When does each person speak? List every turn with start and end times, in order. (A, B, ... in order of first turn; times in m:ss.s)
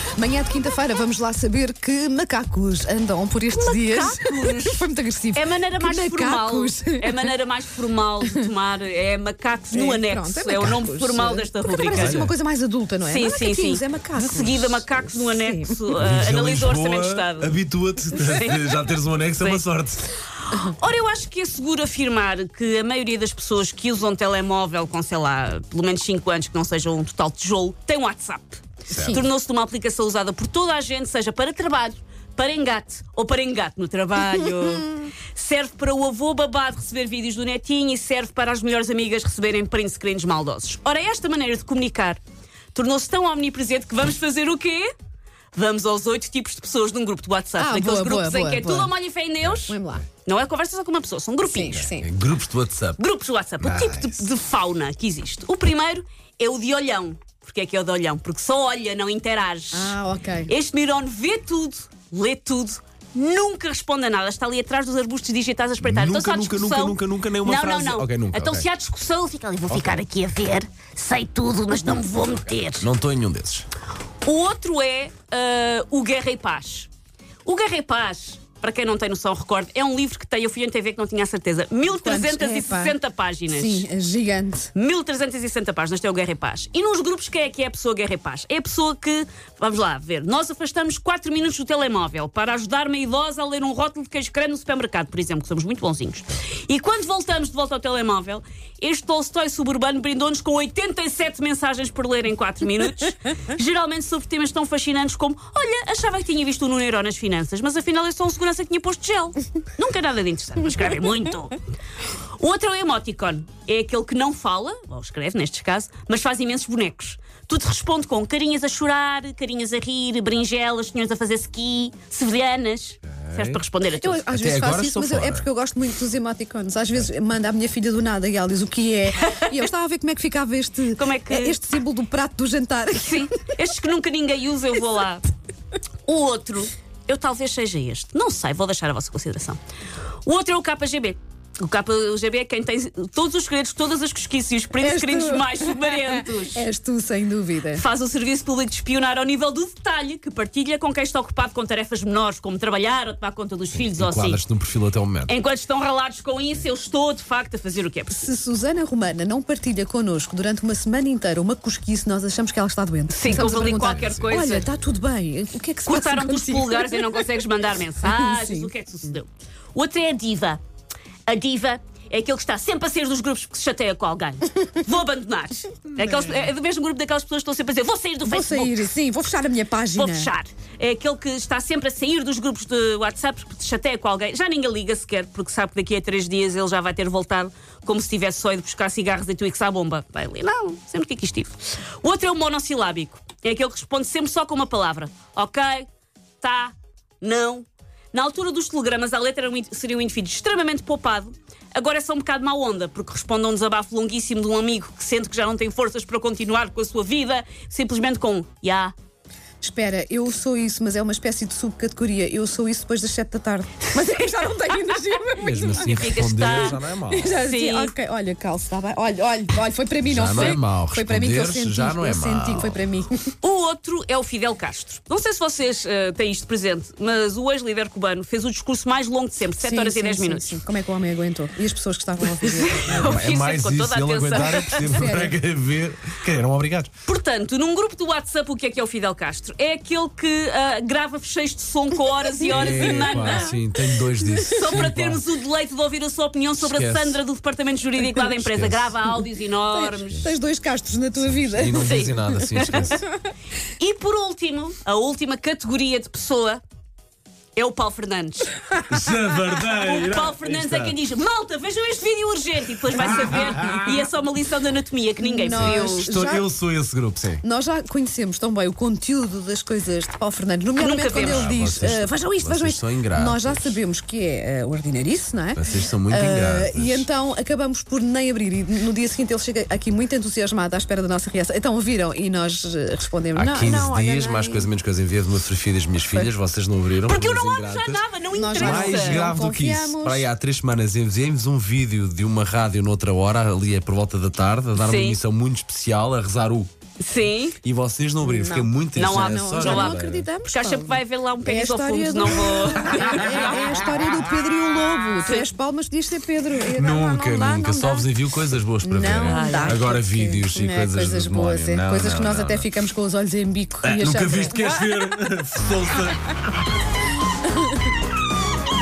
0:00.2-0:07.3 A
0:03.5-0:12.2 B
0:09.7-0:16.0 A
0:11.9-0:12.3 C
0:13.0-0:17.6 B
0:15.9-0:20.1 C
0:18.1-0:18.8 B
0:19.3-0:19.6 B
0:20.4-0:42.2 B
0:28.9-0:29.2 C
0:28.9-0:29.2 A
0:42.7-0:44.9 B
0:45.5-0:51.9 B
0:47.6-0:48.9 A
0:49.7-0:50.0 A
0:51.4-0:52.1 A
0:51.8-0:53.0 C
0:53.0-1:00.0 B
0:53.6-0:54.2 C
0:59.7-1:00.5 A
1:00.5-1:12.9 B
1:05.8-1:08.7 C
1:12.8-1:13.7 C
1:14.2-1:16.9 B
1:17.4-1:23.8 B
1:22.0-1:22.9 A
1:23.5-1:24.7 A
1:24.7-1:51.6 B
1:52.4-2:04.2 B
2:03.1-2:03.6 C
2:03.9-2:13.3 A
2:04.3-2:05.4 C
2:09.2-2:09.5 B
2:10.9-2:11.6 B
2:13.0-2:15.2 B
2:16.0-2:19.6 B
2:20.2-2:26.6 B
2:24.8-2:27.8 A
2:27.7-2:34.4 B
2:33.7-2:35.3 C
2:35.3-2:38.3 B
2:38.1-2:47.2 A
2:43.1-2:44.7 B
2:43.2-2:44.7 C
2:45.8-2:50.6 B
2:48.0-2:48.7 A
2:51.3-2:58.9 B
2:58.2-3:00.3 A
2:59.9-3:15.9 B
3:16.4-3:28.9 B
3:29.6-3:43.3 A
3:35.4-3:37.4 C
3:35.7-3:36.8 B
3:37.4-3:37.9 B
3:40.0-3:42.8 C
3:43.4-3:50.6 B
3:49.6-3:53.1 A
3:52.2-3:55.1 B
3:52.8-3:56.9 C
3:54.3-3:55.4 A
3:57.0-4:03.5 B
4:02.4-4:04.9 A
4:02.5-4:05.2 C
4:04.5-4:10.3 B
4:06.6-4:07.2 C
4:08.4-4:09.0 C
4:09.7-4:13.0 A
4:10.0-4:10.3 C
4:11.2-4:13.0 C
4:11.7-4:13.0 B
4:13.8-4:16.6 B
4:17.6-4:18.6 B
4:18.9-4:21.0 C
4:19.7-4:26.1 B
4:25.2-4:26.5 A
4:25.5-4:27.4 C
4:27.4-4:44.7 A
4:30.8-4:31.5 B
4:31.2-4:33.8 C
4:35.6-4:37.1 C
4:43.4-4:48.0 C
4:47.0-4:49.3 B
4:48.3-4:50.3 A
4:48.6-4:56.7 C
4:54.8-4:55.2 B
4:57.0-4:57.6 B
4:57.6-5:00.3 C
4:58.2-5:08.1 A
4:59.0-5:00.0 B
5:00.5-5:03.6 B
5:06.7-5:12.7 C
5:08.8-5:14.8 A
5:09.2-5:09.8 B
5:13.8-5:16.3 C